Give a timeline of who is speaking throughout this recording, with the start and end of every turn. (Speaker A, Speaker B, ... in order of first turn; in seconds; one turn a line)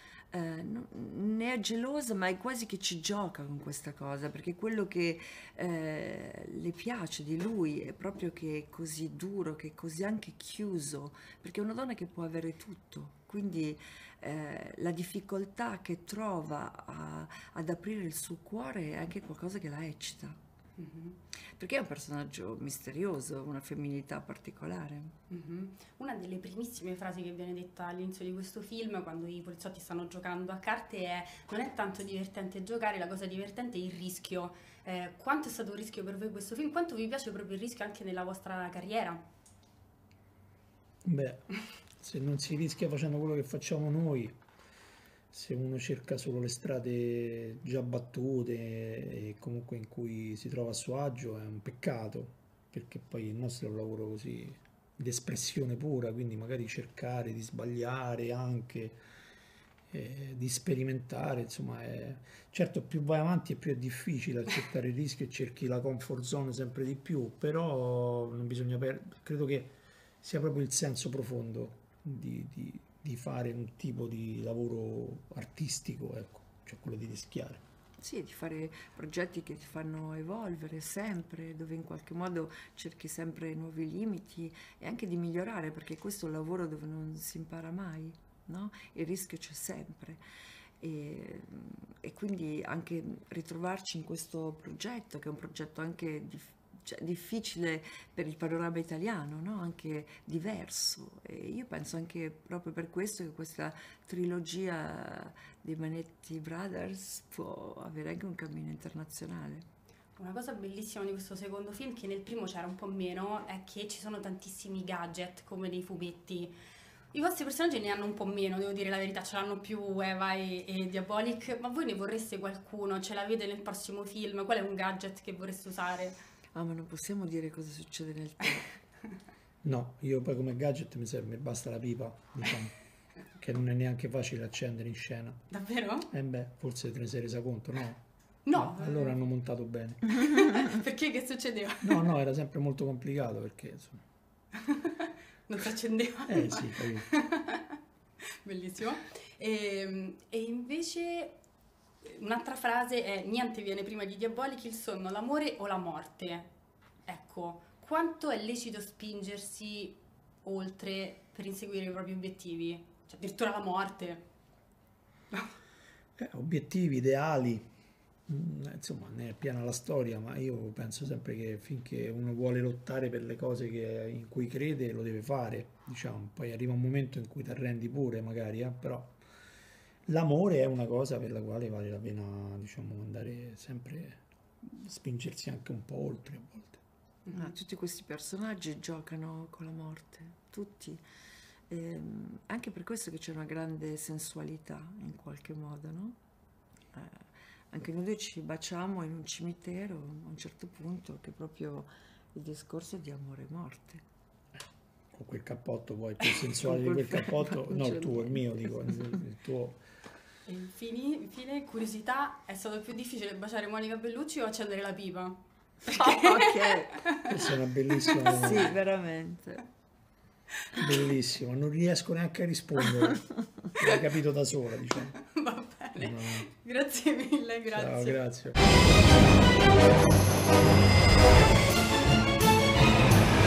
Speaker A: 0.3-20.4
Speaker B: 20.8-21.2
Speaker A: 21.6-25.1
Speaker B: 25.3-39.2
Speaker C: 41.0-44.4
Speaker C: 45.3-59.0
Speaker C: 59.9-77.6
Speaker A: 78.0-90.2
Speaker A: 90.8-109.7
Speaker B: 110.2-116.6
Speaker B: 117.1-126.2
Speaker A: 126.5-128.8
Speaker C: 129.6-132.8
Speaker C: 133.4-135.5
Speaker B: 135.5-136.1
Speaker C: 136.1-140.3
Speaker B: 138.5-139.2
Speaker B: 140.1-142.1
Speaker C: 141.8-144.0
Speaker B: 144.5-151.3
Speaker C: 146.2-147.1
Speaker B: 152.0-156.5
Speaker B: 157.1-164.2
Speaker C: 166.2-167.7
Speaker C: 168.3-179.2
Speaker C: 180.1-186.8
Speaker A: 187.3-191.0
Speaker A: 191.7-196.2
Speaker A: 196.9-204.0
Speaker C: 205.1-209.8
Speaker A: 206.5-209.2
Speaker B: 210.5-217.4
Speaker A: 215.8-217.0
Speaker C: 217.2-218.8
Speaker B: 218.0-218.6
Speaker A: 218.3-219.6
Speaker C: 220.7-225.2
Speaker B: 225.2-228.2
Speaker C: 226.0-226.5
Speaker C: 227.7-228.6